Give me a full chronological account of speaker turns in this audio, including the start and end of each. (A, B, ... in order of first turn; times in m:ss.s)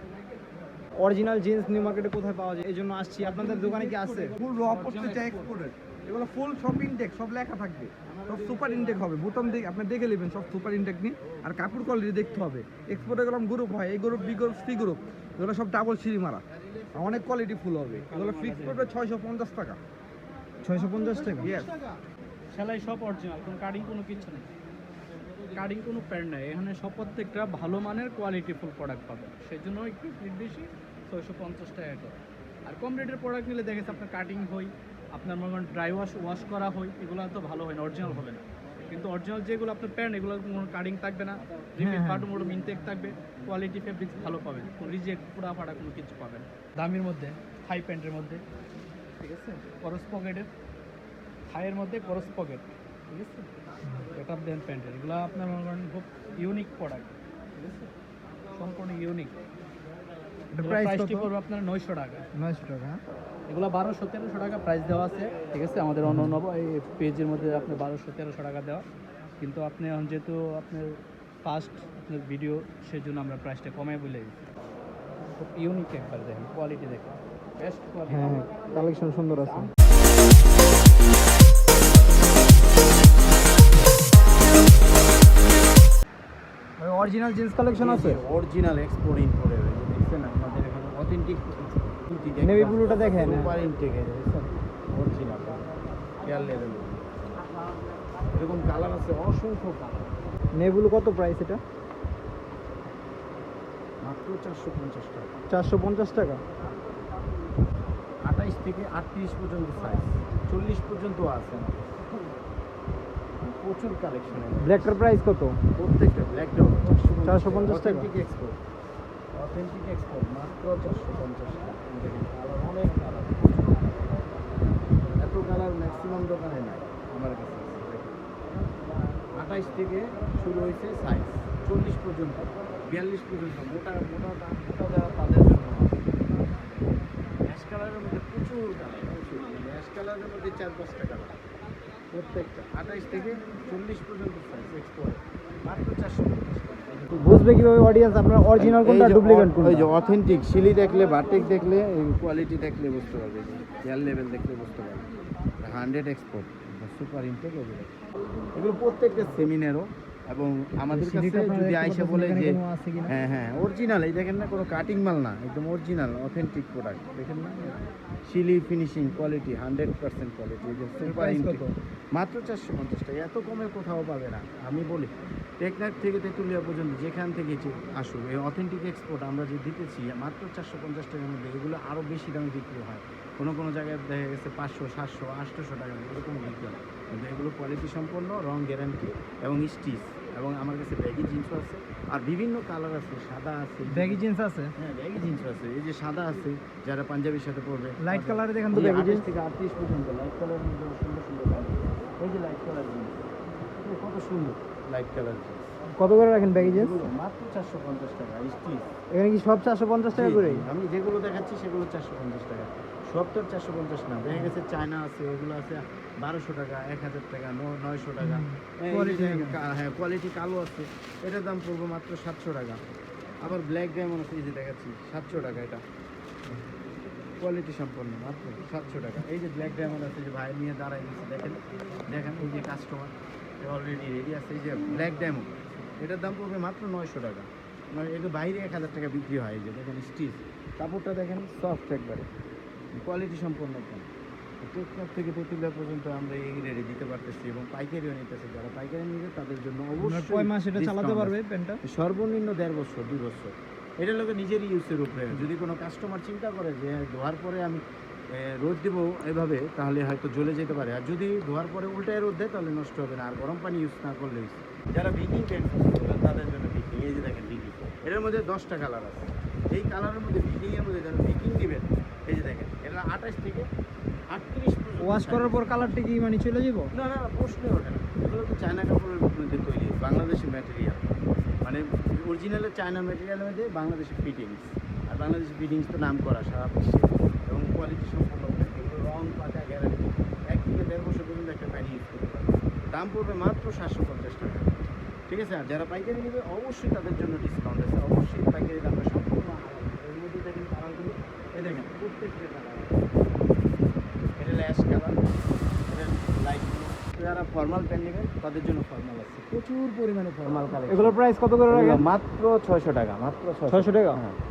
0:01.0-0:04.4 A
0:03.5-0:04.0 B
0:03.6-0:19.8 C
0:04.6-0:05.4 B
0:17.9-0:18.9 B
0:20.6-0:21.5 A
0:21.4-0:21.8 C
0:22.5-0:24.5 B
0:25.5-0:48.4 B
0:41.8-0:42.3 A
0:49.2-0:50.5 B
0:51.5-0:53.5 B
0:54.1-0:57.9 B
0:58.5-0:59.3 B
1:00.5-1:01.3 A
1:00.6-1:02.2 B
1:02.3-1:03.0 A
1:03.5-1:14.4 B
1:06.0-1:06.4 A
1:15.4-1:18.7 B
1:18.1-1:19.7 A
1:19.3-1:19.7 B
1:26.8-1:28.2 A
1:27.8-1:35.7 D
1:32.4-1:33.5 A
1:36.2-1:37.5 D
1:38.3-1:40.1 D
1:40.5-1:41.6 A
1:44.0-1:45.3 D
1:45.5-1:46.4 A
1:48.2-1:51.9 D
1:53.4-1:55.0 D
1:54.6-1:55.6 A
1:55.8-1:58.6 D
1:57.2-1:58.1 A
1:59.3-2:03.9 D
2:05.2-2:08.2 D
2:09.4-2:16.0 D
2:17.4-2:21.3 D
2:22.1-2:27.7 D
2:27.2-2:29.9 A
2:28.6-2:35.1 D
2:35.6-2:37.9 D
2:38.5-2:47.7 D
2:40.9-2:43.1 A
2:48.2-3:14.2 D
2:51.0-2:51.7 A
3:13.9-3:14.7 A
3:14.8-3:25.6 D
3:18.0-3:19.3 A
3:26.0-3:27.0 A
3:26.4-3:28.9 D
3:29.1-3:30.6 A
3:30.1-3:42.8 D
3:38.2-3:39.6 A
3:43.4-3:45.8 D
3:47.4-4:02.3 D
4:03.0-4:04.1 D
4:04.6-4:17.8 D
4:10.0-4:11.8 A
4:18.3-4:33.7 D
4:34.3-4:36.0 D
4:35.0-4:36.9 A
4:36.9-5:03.2 D
5:04.4-5:05.4 D
5:05.9-5:14.4 D
5:10.9-5:12.0 A
5:13.7-5:14.2 A